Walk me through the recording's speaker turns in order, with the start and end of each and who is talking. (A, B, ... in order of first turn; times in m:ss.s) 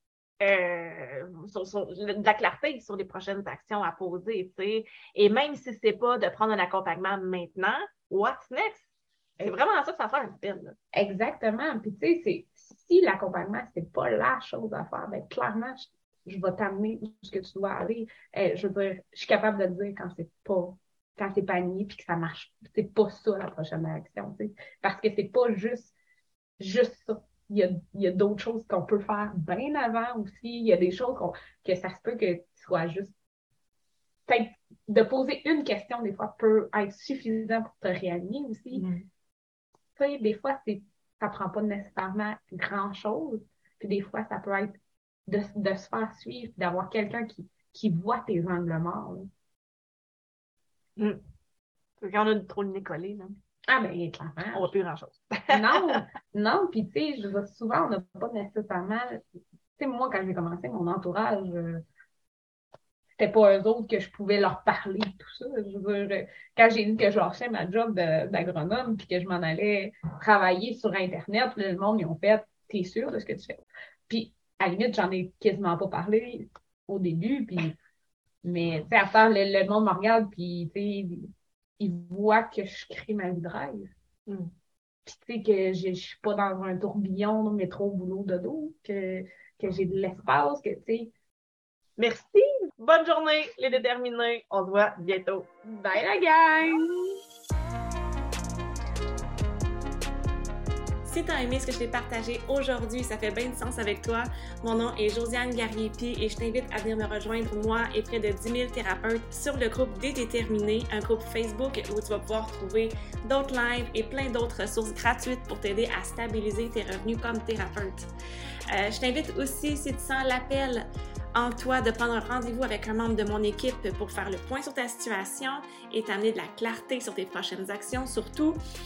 0:00.4-0:08.9 A
0:09.4-0:10.8 A
0:10.9-0:25.9 B
0:26.6-0:33.1 B
0:34.3-0:38.9 B
0:38.7-0:39.0 A
0:40.0-0:44.8 B
0:45.3-0:49.3 B
0:51.0-0:51.2 A
0:52.0-0:53.4 A
0:53.7-0:54.7 B
0:54.5-0:56.0 A
0:55.5-0:59.2 B
0:59.8-1:01.8 B
1:03.2-1:17.8 B
1:18.4-1:23.9 B
1:24.3-1:24.5 A
1:25.1-1:31.1 B
1:32.0-1:35.5 A
1:35.6-1:37.2 B
1:41.0-1:58.1 C
1:58.7-2:08.6 C